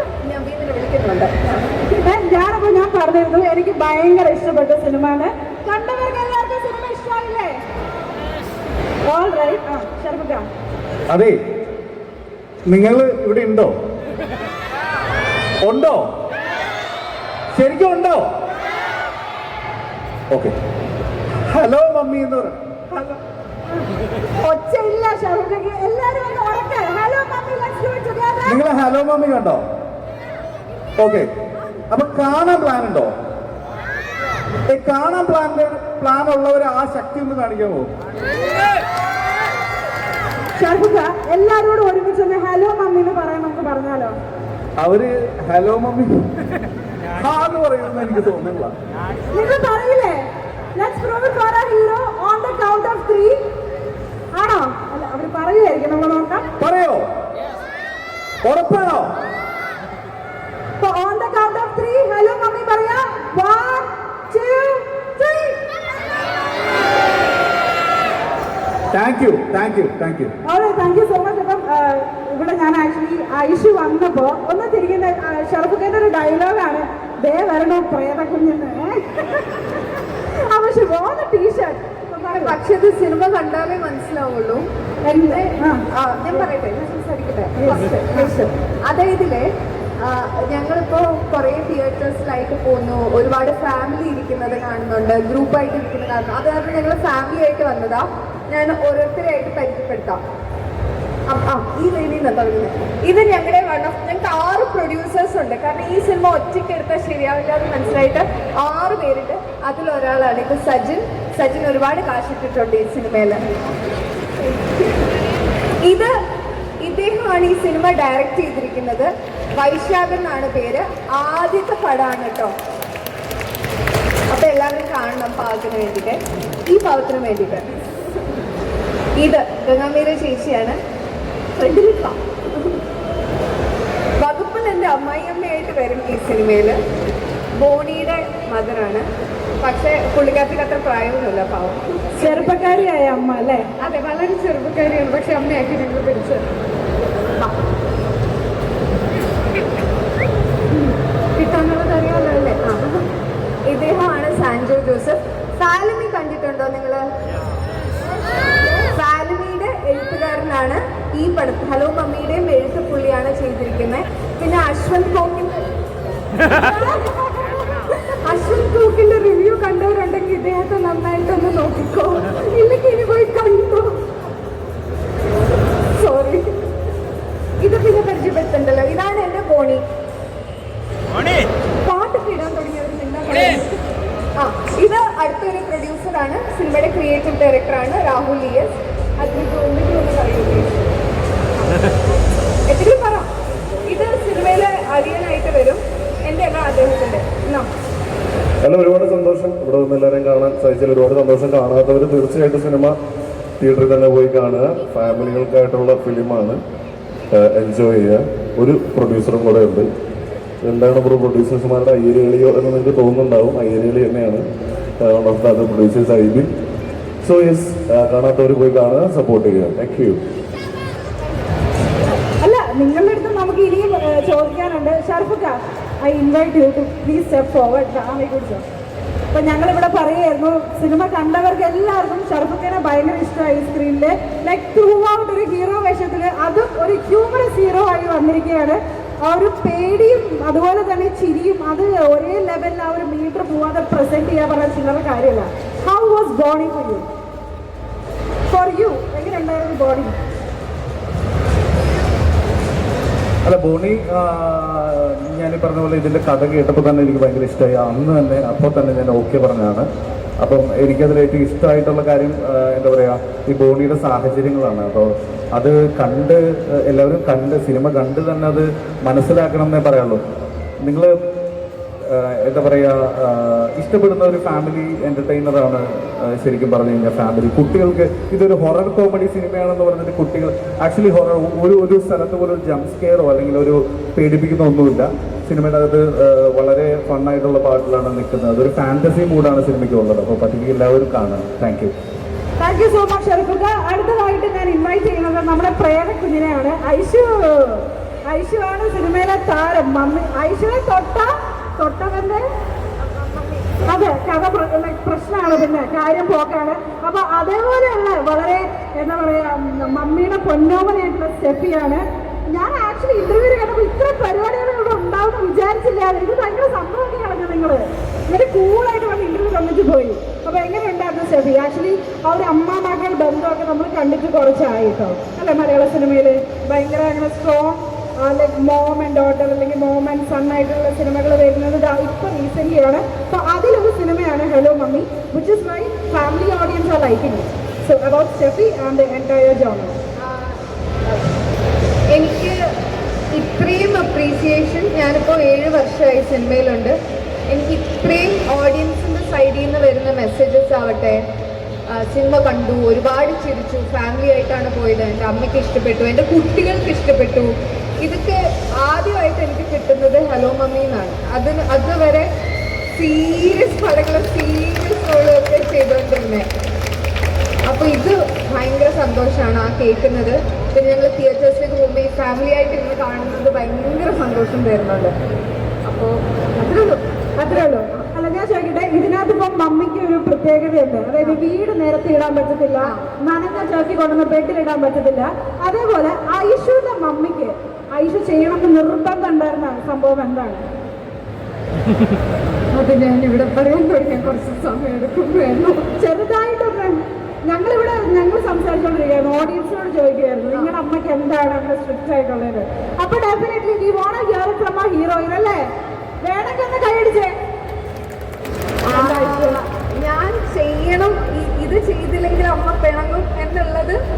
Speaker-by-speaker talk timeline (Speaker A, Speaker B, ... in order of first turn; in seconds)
Speaker A: 0.2-1.6, 82.3-84.7, 85.2-89.5, 90.0-100.2, 101.3-113.4, 115.8-116.1, 116.8-122.5, 124.3-127.7, 129.2-130.8, 131.6-132.2, 134.2-136.8, 137.6-139.1, 139.6-142.6, 143.8-146.4, 150.8-153.0, 153.7-157.0, 158.9-165.7, 166.4-174.0, 176.0-176.5, 177.6-179.8, 181.8-183.8, 184.4-190.7, 192.7-193.3, 193.9-197.7, 303.2-303.8, 340.2-340.6, 342.1-342.6, 343.3-347.0, 347.5-351.2, 351.9-362.3, 362.9-366.5, 367.7-375.1, 375.9-377.0, 392.7-395.9, 408.9-414.0
Speaker B: 1.9-7.6, 9.1-10.5, 24.4-28.6, 40.6-44.1, 49.3-53.4, 54.3-56.5, 60.8-65.6, 70.5-82.6, 85.0-85.8, 87.6-88.4, 142.2-143.6, 222.4-228.6, 229.3-247.1, 248.5-250.2, 292.6-302.4, 303.9-339.9, 377.4-390.6, 395.9-405.6, 406.2-407.3, 408.9-409.6
Speaker C: 11.1-11.4, 12.7-13.7, 15.6-16.1, 17.5-18.3, 21.5-23.2, 28.4-29.6, 31.0-31.3, 31.9-33.1, 34.7-37.9, 44.8-46.3, 47.2-48.7, 56.6-57.1, 58.4-59.1, 68.9-70.3, 253.4-259.9, 260.4-270.2, 270.8-271.1, 272.1-291.9
Speaker D: 198.6-203.0, 203.6-206.6, 207.3-209.9, 210.6-214.4, 215.0-216.5, 217.2-220.2